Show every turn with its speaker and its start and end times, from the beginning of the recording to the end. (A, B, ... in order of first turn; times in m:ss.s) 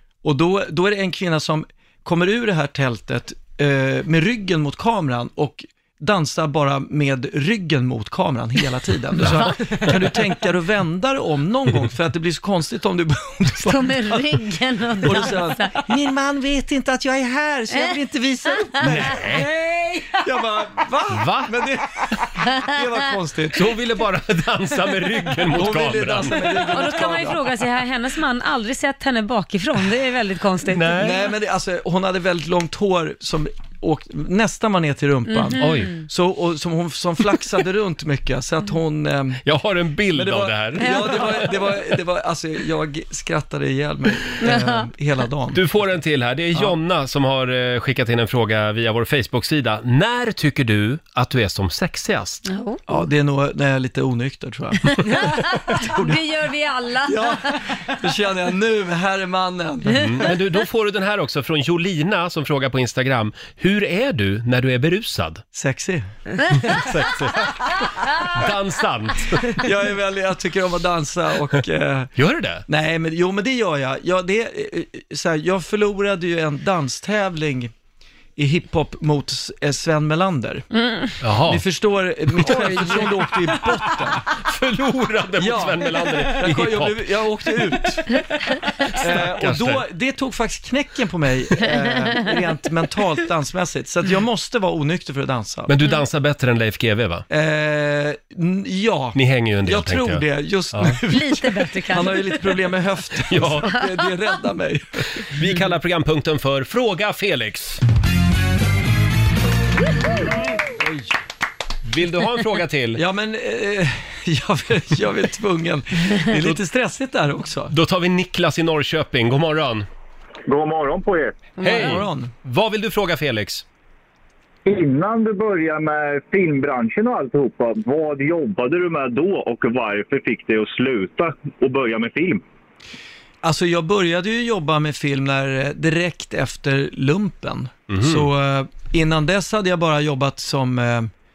0:00.2-0:14.4 A
0:09.2-0:09.5 B
0:13.6-0:15.8 C
0:15.0-0:23.7 A
0:18.8-0:19.5 B
0:21.1-0:21.5 B
0:23.5-0:26.5 B
0:25.5-0:27.5 A
0:26.6-0:31.1 C
0:30.7-0:31.2 B
0:31.0-0:39.4 A
0:35.3-0:36.0 C
0:35.6-0:35.9 B
0:39.4-0:41.4 B
0:40.1-0:45.9 A
0:40.8-0:41.4 C
0:44.4-0:44.9 C
0:45.5-0:52.4 B
0:52.5-0:53.0 C
0:52.9-0:56.2 A
0:55.1-0:57.6 C
0:57.0-1:00.3 A
0:59.9-1:05.4 B
1:05.5-1:06.0 A
1:06.5-1:09.6 B
1:09.4-1:12.1 A
1:12.2-1:12.7 B
1:12.7-1:17.7 A
1:18.4-1:20.6 A
1:20.8-1:21.1 C
1:21.2-1:21.6 B
1:21.4-1:24.3 A
1:22.4-1:23.1 B
1:24.3-1:27.5 B
1:25.4-1:28.2 A
1:28.8-1:29.8 B
1:29.0-1:35.7 A
1:35.7-1:37.3 B
1:37.3-1:45.4 A
1:39.2-1:41.0 B
1:41.1-1:42.7 C
1:43.3-1:43.7 B
1:45.2-1:47.8 B
1:50.6-1:51.1 A
1:51.9-1:53.0 B
1:53.0-1:57.7 A
1:57.7-1:59.9 B
2:00.5-2:01.4 D
2:01.6-2:03.6 B
2:01.6-2:01.9 C
2:01.7-2:02.3 A
2:04.7-2:12.4 D
2:13.4-2:21.1 A
2:17.9-2:18.3 B